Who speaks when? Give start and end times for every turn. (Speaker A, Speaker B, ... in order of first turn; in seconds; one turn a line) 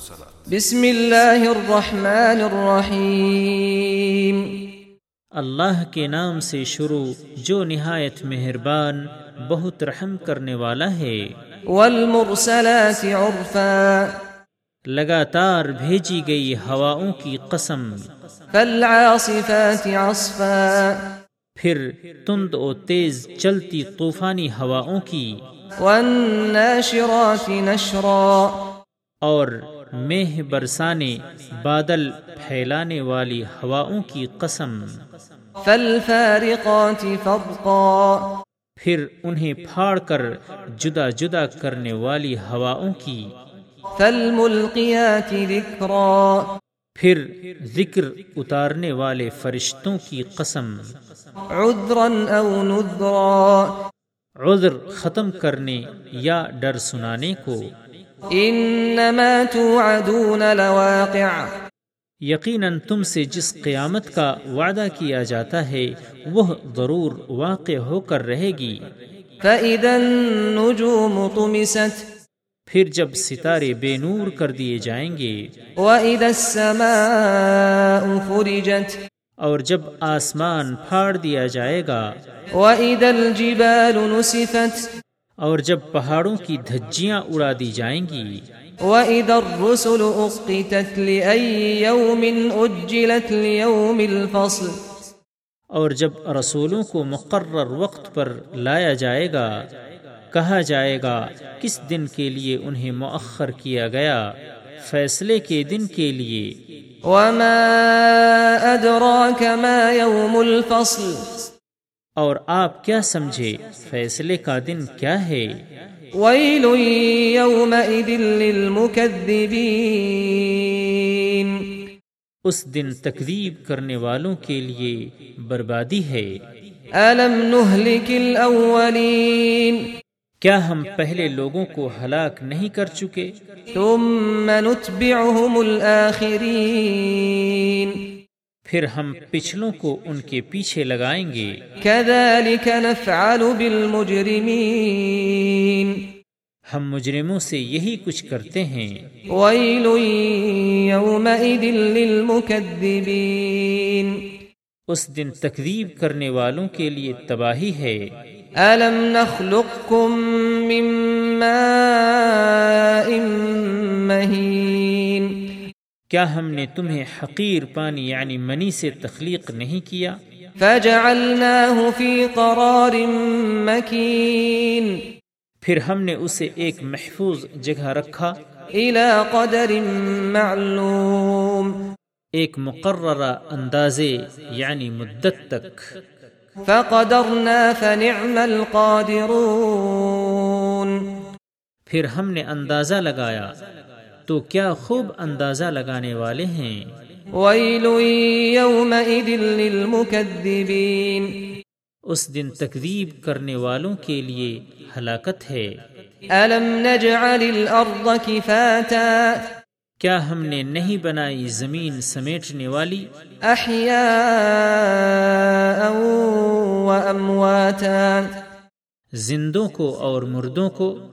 Speaker A: 0.5-4.7
Speaker B: 5.4-11.2
Speaker A: 11.7-14.2
Speaker B: 14.9-17.9
Speaker A: 18.5-21.1
Speaker B: 21.6-25.4
Speaker A: 25.8-28.6
Speaker B: 29.2-34.9
Speaker A: 35.6-38.3
Speaker B: 38.8-43.3
Speaker A: 44.0-46.5
Speaker B: 47.0-50.7
Speaker A: 51.5-53.8
Speaker B: 54.4-57.7
Speaker A: 58.3-61.5
Speaker B: 62.3-68.9
Speaker A: 69.4-72.0
Speaker B: 72.7-75.5
Speaker A: 75.8-79.0
Speaker B: 79.4-82.0
Speaker A: 82.5-84.9
Speaker B: 85.4-88.4
Speaker A: 88.8-94.7
Speaker B: 95.7-99.5
Speaker B: 100.3-104.2
Speaker B: 104.8-106.6
Speaker A: 107.1-111.5
Speaker B: 112.2-115.6
Speaker A: 116.1-121.8
Speaker B: 122.4-126.3
Speaker A: 127.0-129.8
Speaker B: 130.4-133.3
Speaker A: 133.7-138.1
Speaker B: 138.7-141.6
Speaker A: 141.8-146.1
Speaker B: 146.7-149.1
Speaker A: 149.3-154.3
Speaker B: 154.9-158.0
Speaker A: 158.6-165.6
Speaker B: 166.1-170.2
Speaker A: 170.6-175.0
Speaker B: 175.6-178.3
Speaker A: 178.8-181.7
Speaker B: 182.4-185.8
Speaker A: 186.7-191.2
Speaker B: 191.9-193.5
Speaker B: 194.3-196.9
Speaker A: 197.3-201.5
Speaker B: 202.1-205.7
Speaker A: 206.3-209.5
Speaker B: 210.0-213.1
Speaker A: 213.4-218.3
Speaker B: 219.2-221.0